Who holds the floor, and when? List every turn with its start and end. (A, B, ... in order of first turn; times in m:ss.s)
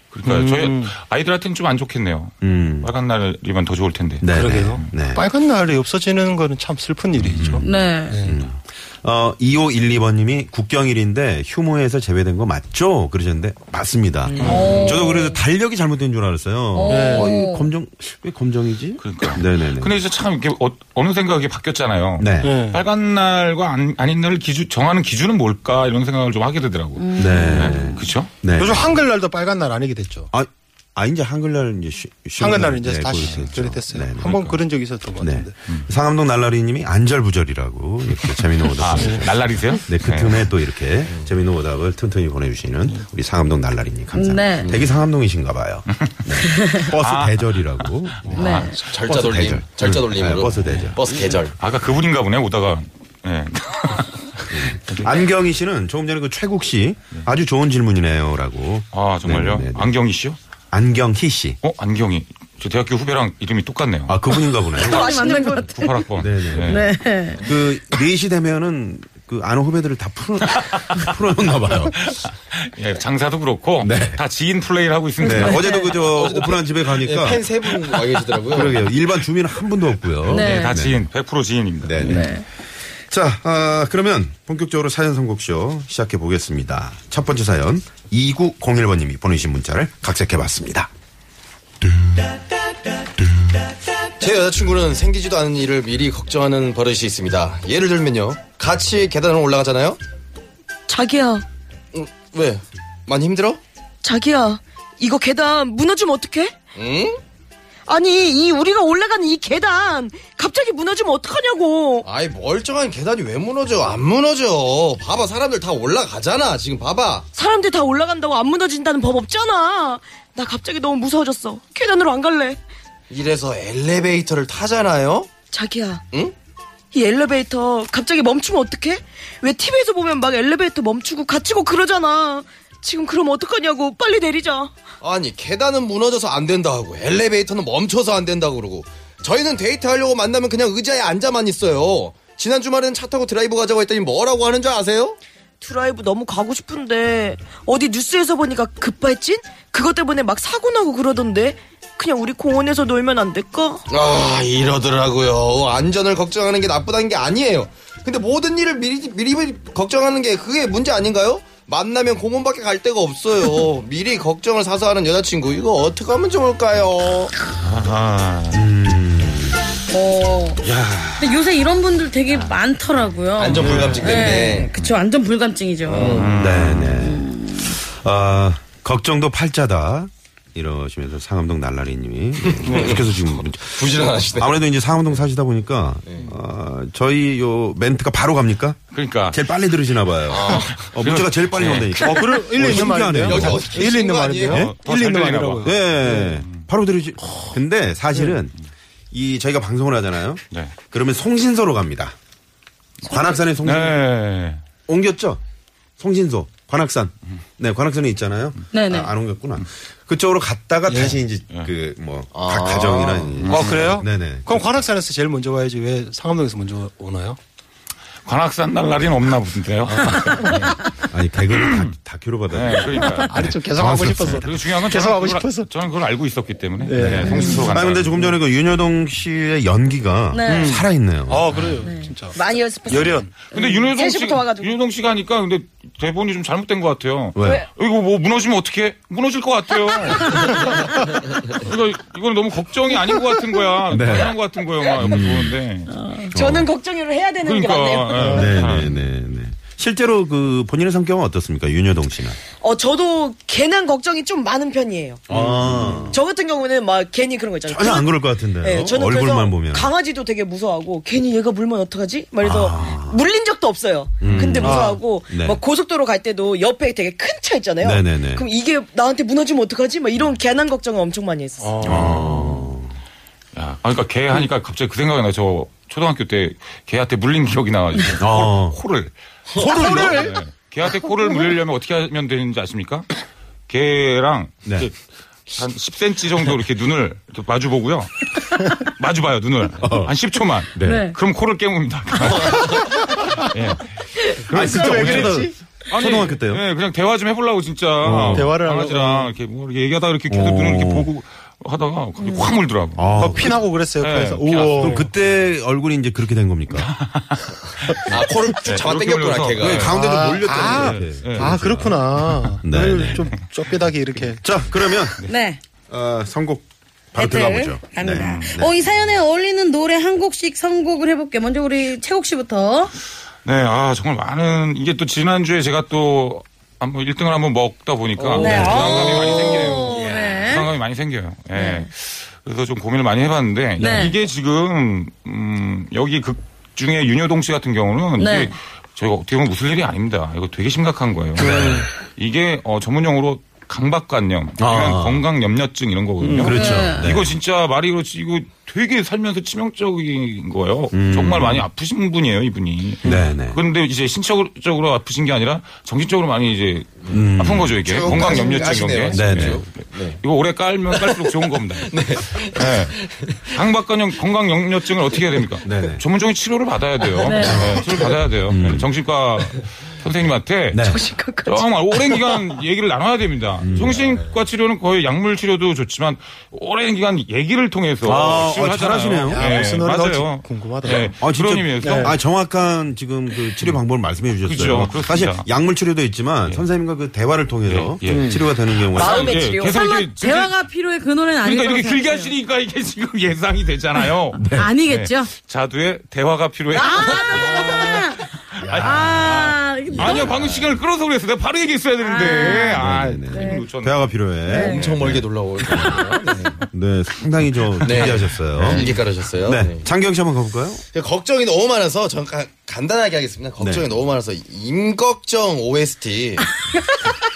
0:00.1-0:04.9 A
0:00.2-0:00.9 B
0:02.4-0:02.9 C
0:04.2-0:05.2 C
0:04.3-0:08.4 B
0:07.2-0:07.6 C
0:07.6-0:08.2 D
0:08.2-0:20.0 C
0:14.3-0:15.0 B
0:14.4-0:14.8 A
0:14.4-0:15.3 D
0:16.7-0:17.7 D
0:16.9-0:17.3 B
0:19.0-0:28.3 A
0:22.2-0:22.5 C
0:22.4-0:22.8 B
0:27.0-0:27.9 D
0:27.2-0:28.9 C
0:28.6-0:30.3 B
0:30.3-0:34.3 C
0:32.4-0:35.5 B
0:34.2-0:34.6 A
0:35.2-0:39.3 C
0:38.6-0:40.5 A
0:39.8-0:51.0 C
0:44.1-0:44.7 D
0:46.5-0:46.9 D
0:46.8-0:48.8 A
0:48.3-0:48.8 D
0:48.8-0:51.5 E
0:50.6-0:51.0 A
0:51.6-0:55.2 A
0:54.5-0:59.9 C
0:58.9-1:00.4 A
1:00.7-1:01.6 C
1:01.6-1:04.2 A
1:04.1-1:05.1 C
1:04.8-1:05.7 F
1:04.8-1:06.0 D
1:05.5-1:06.9 A
1:06.2-1:12.0 C
1:06.6-1:07.4 D
1:12.0-1:15.7 A
1:13.8-1:14.2 C
1:15.2-1:17.7 C
1:15.2-1:15.9 D
1:16.0-1:18.8 E
1:18.5-1:21.0 C
1:20.3-1:20.8 D
1:20.3-1:22.2 A
1:21.8-1:22.3 C
1:22.0-1:22.4 D
1:23.1-1:30.9 C
1:34.2-1:40.0 E
1:40.9-1:41.4 F
1:41.9-1:43.6 E
1:44.0-1:46.6 F
1:46.8-1:47.2 E
1:47.9-1:52.1 F
1:52.0-1:57.3 E
1:57.3-2:02.6 F
2:03.1-2:05.3 E
2:05.5-2:06.0 F
2:06.9-2:14.7 F
2:15.0-2:25.2 E
2:25.6-2:33.8 F
2:33.9-2:47.3 E
2:47.5-2:48.7 A
2:48.5-2:49.6 C
2:49.9-2:50.6 D
2:50.6-2:51.2 A
2:51.2-2:56.2 D
2:53.4-2:54.7 E
2:53.6-2:54.0 A
2:55.8-2:56.3 E
2:56.1-2:57.1 A
2:56.3-3:08.8 C
2:57.0-2:57.8 D
3:02.5-3:03.1 E
3:02.7-3:03.0 B
3:03.6-3:04.5 E
3:08.9-3:09.4 A
3:09.3-3:13.8 C
3:10.3-3:10.7 E
3:10.5-3:12.4 A
3:12.0-3:16.4 B
3:13.1-3:14.6 E
3:14.4-3:16.6 A
3:14.5-3:14.7 C
3:15.6-3:18.5 C
3:19.1-3:22.1 C
3:23.0-3:24.0 C
3:23.6-3:24.6 A
3:24.9-3:25.4 C
3:26.0-3:34.6 C
3:28.7-3:29.1 D
3:30.9-3:31.2 B
3:32.3-3:33.4 E
3:33.4-3:33.9 A
3:33.5-3:37.4 B
3:38.2-3:40.8 A
3:39.9-3:40.7 B
3:41.1-3:44.4 C
3:41.5-3:41.9 A
3:42.5-3:43.6 A
3:43.3-3:45.7 B
3:44.3-3:48.2 A
3:46.8-3:47.7 B
3:47.0-3:51.6 C
3:50.3-3:50.7 D
3:50.5-3:52.4 B
3:51.8-3:52.1 D
3:52.3-3:54.8 F
3:52.9-3:53.4 B
3:53.5-4:05.9 A
3:57.3-3:57.6 C
4:03.9-4:04.4 C
4:05.0-4:05.6 C
4:05.9-4:06.3 D
4:06.3-4:08.7 F
4:06.3-4:06.7 C
4:07.4-4:08.9 A
4:08.2-4:08.5 B
4:08.2-4:12.4 C
4:12.6-4:15.3 F
4:15.3-4:16.2 C
4:15.3-4:16.1 B
4:16.1-4:31.8 F
4:17.7-4:19.9 C
4:22.4-4:23.2 C
4:24.2-4:25.6 C
4:24.3-4:25.0 B
4:27.8-4:28.4 C
4:31.6-4:32.5 B
4:31.8-4:32.9 C
4:31.8-4:32.6 A
4:33.5-4:39.1 A
4:38.2-4:38.8 C
4:39.6-4:40.3 B
4:39.6-4:40.2 C
4:39.7-4:43.1 A
4:43.7-4:44.9 A
4:45.5-5:03.1 A
4:49.8-4:50.1 C
4:50.7-4:51.0 C
4:50.8-4:51.2 D
4:54.5-4:55.5 B
4:54.5-4:56.6 C
4:58.0-4:58.5 C
4:58.3-4:59.3 B
5:00.3-5:01.1 C
5:03.0-5:03.6 C
5:03.1-5:05.1 B
5:04.0-5:05.1 A
5:04.7-5:06.9 C
5:06.7-5:09.9 A
5:08.1-5:09.9 E
5:09.6-5:12.0 C
5:09.8-5:14.4 B
5:10.6-5:11.5 A
5:12.6-5:13.3 C
5:14.4-5:15.2 C
5:15.2-5:15.6 D
5:15.9-5:18.7 C
5:17.2-5:22.9 D
5:18.1-5:18.6 A
5:23.4-6:10.9 A
5:28.3-5:29.2 F
5:28.4-5:30.7 D
5:31.6-5:31.9 D
5:33.8-5:34.1 D
5:38.2-5:38.5 D
5:41.4-5:41.9 C
5:44.6-5:45.2 C
5:46.2-5:46.5 B
5:46.3-5:47.3 C
5:46.4-5:47.1 D
5:50.9-5:51.7 C
5:53.0-5:53.6 C
5:57.1-5:58.4 C
5:57.8-6:00.2 E
5:59.1-5:59.6 C
6:00.9-6:03.5 E
6:05.6-6:06.0 C
6:07.2-6:07.8 D
6:07.4-6:07.8 C
6:08.5-6:08.9 C
6:10.7-6:11.0 C
6:10.8-6:12.4 F
6:11.4-6:22.2 A
6:13.6-6:14.2 C
6:18.0-6:19.5 C
6:19.3-6:21.2 B
6:21.2-6:29.5 C
6:21.8-6:22.1 B
6:24.4-6:25.5 A
6:27.6-6:30.5 A
6:28.0-6:28.4 B
6:28.9-6:29.9 F
6:29.7-6:32.3 D
6:31.4-6:37.9 A
6:34.4-6:34.7 C
6:34.4-6:35.3 D
6:36.7-6:37.9 F
6:36.8-6:40.3 D
6:38.6-6:45.0 A
6:38.6-6:39.3 C
6:39.9-6:40.5 C
6:42.0-6:43.6 D
6:42.5-6:46.0 C
6:44.5-6:44.8 D
6:44.5-6:46.6 E
6:46.7-6:50.8 C
6:47.8-6:48.9 A
6:47.8-6:49.9 E
6:50.9-6:56.5 E
6:53.6-6:53.8 C